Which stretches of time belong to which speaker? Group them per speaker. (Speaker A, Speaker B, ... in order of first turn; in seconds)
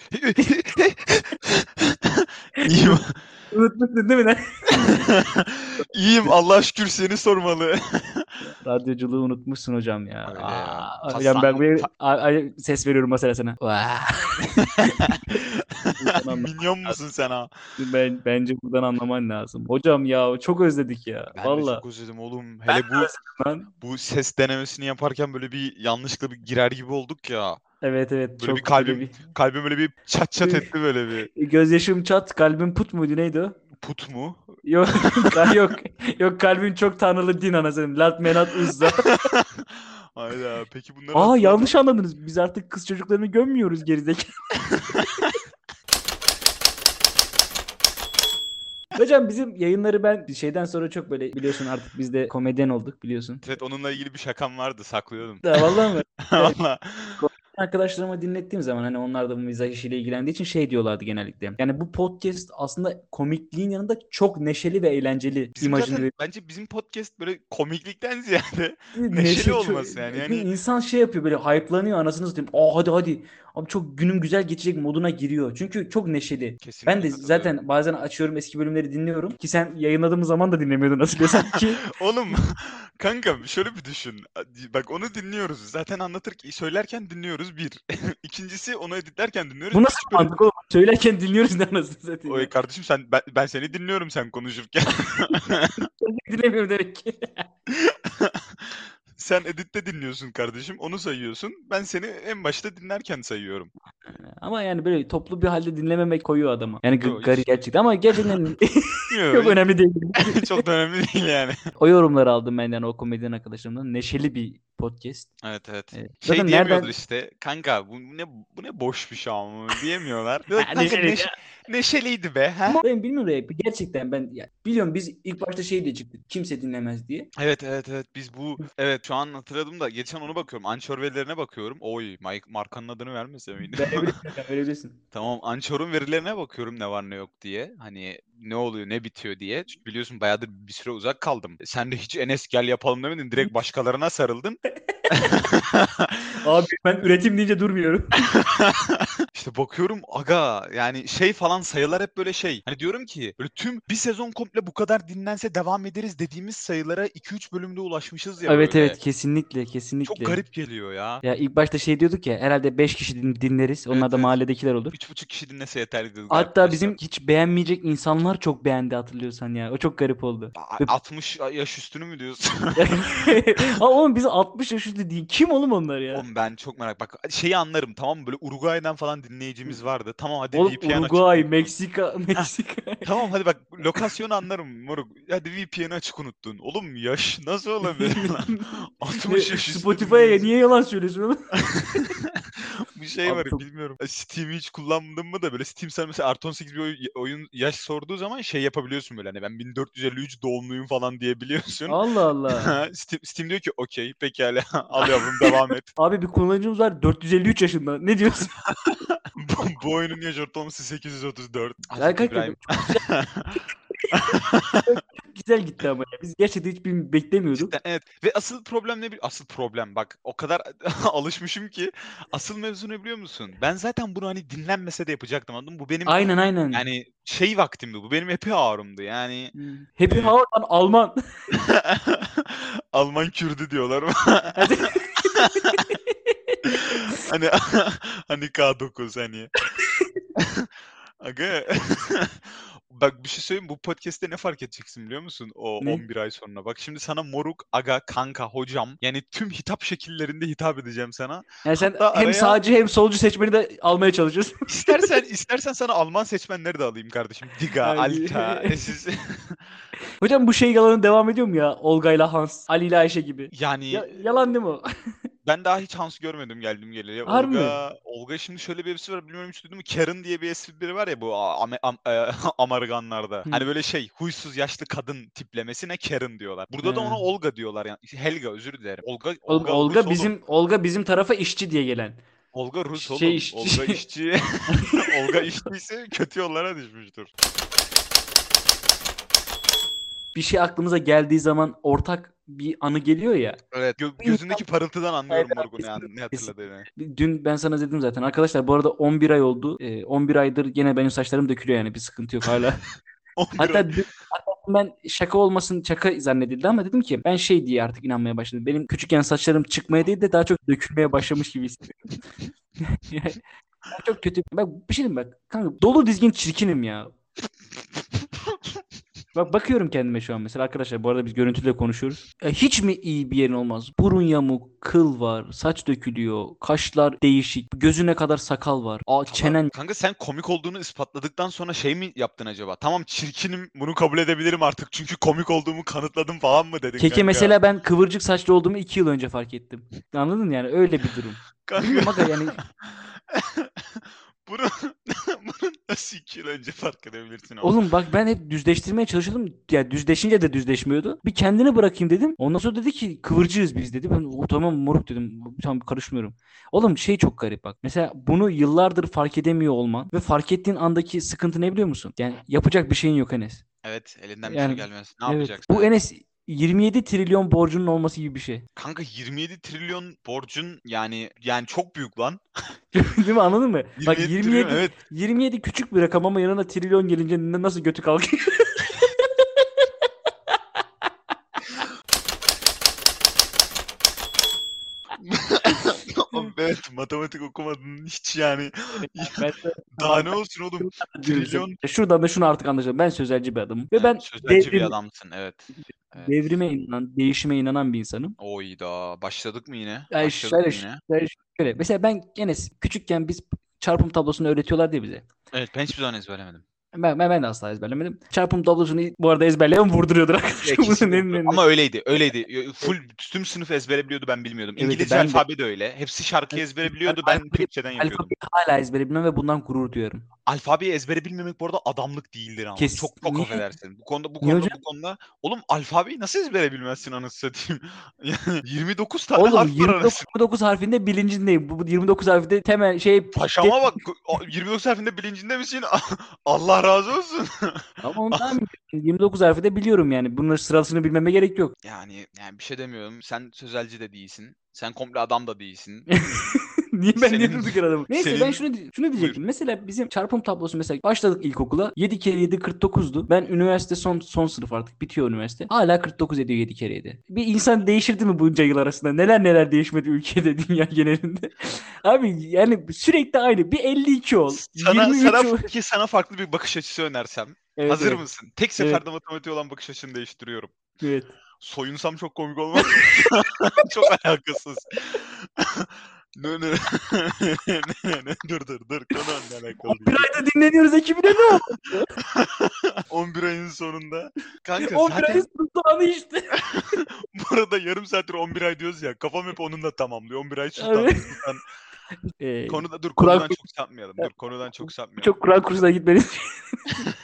Speaker A: 0.1-3.2, 4.8-8.4, 10.3-11.9, 14.9-15.2, 15.8-17.5, 21.3-23.1, 23.8-27.6, 28.4-31.3, 33.8-35.5, 38.7-41.8, 53.4-57.2, 65.6-70.5, 76.6-77.5, 81.2-90.3, 92.3-95.8, 97.7-103.7, 107.0-107.5, 109.1-109.6, 110.2-111.5, 115.4-122.8, 127.3-134.1, 135.1-144.6, 145.1-146.4, 148.3-159.0, 160.1-161.2, 163.9-164.4, 164.9-167.0, 170.6-173.6, 176.1-181.7, 183.0-190.5, 191.7-202.0, 202.6-205.9, 208.7-213.6, 214.1-214.8, 217.6-229.5, 230.1-230.3, 231.5-235.8, 236.7-239.5, 240.4-240.7, 241.2-252.6, 254.7-259.6, 263.5-264.2, 265.4-280.3, 282.5-287.3, 293.7-296.9, 303.4-303.9, 329.3-337.6, 341.6-347.8, 363.8-365.9, 368.8-372.4, 374.0-374.9, 385.2-389.4, 390.0-391.8, 393.9-396.4, 398.4-401.0, 405.5-406.6, 410.6-418.3, 420.4-430.2, 433.3-438.6, 441.8-446.1, 447.1-449.4, 464.5-470.7, 471.6-480.3, 482.2-485.4, 486.5-491.6, 492.7-495.4
Speaker B: 0.4-0.6, 2.6-3.0, 3.5-4.9, 8.4-15.4, 16.0-16.5, 17.8-21.8, 22.7-23.7, 27.8-29.2, 30.4-30.7, 31.4-33.6, 34.6-39.1, 41.1-45.0, 49.0-53.4, 55.4-56.5, 57.2-66.1, 68.9-81.8, 89.7-92.5, 96.0-97.4, 104.0-110.6, 111.8-115.3, 115.9-116.9, 120.5-121.3, 122.7-127.3, 133.8-135.0, 144.9-145.3, 146.4-148.2, 158.4-160.4, 161.2-164.9, 166.3-170.9, 172.8-176.2, 180.5-183.1, 187.8-188.7, 189.3-192.1, 193.2-193.6, 201.9-202.8, 205.1-208.5, 212.0-213.0, 214.2-217.7, 226.1-226.8, 229.6-231.2, 234.6-237.0, 239.8-240.1, 251.7-255.1, 257.8-258.9, 260.2-264.8, 267.2-267.8, 276.8-277.2, 279.5-282.2, 282.9-284.0, 284.7-285.4, 290.3-293.6, 294.2-294.6, 295.3-302.8, 303.6-312.2, 312.9-313.4, 313.9-317.1, 319.3-329.7, 337.0-342.6, 347.6-363.6, 364.4-368.6, 372.9-379.8, 380.5-380.8, 389.1-394.9, 396.1-398.3, 400.1-405.2, 406.9-411.6, 414.8-415.4, 416.5-420.2, 422.8-423.6, 424.4-424.8, 429.4-434.0, 438.0-441.7, 446.1-465.7, 467.8-468.2, 468.8-469.0, 471.0-471.3, 472.8-473.4, 479.8-482.1, 484.8-486.5, 490.8-491.4, 492.4-493.6, 494.2-497.0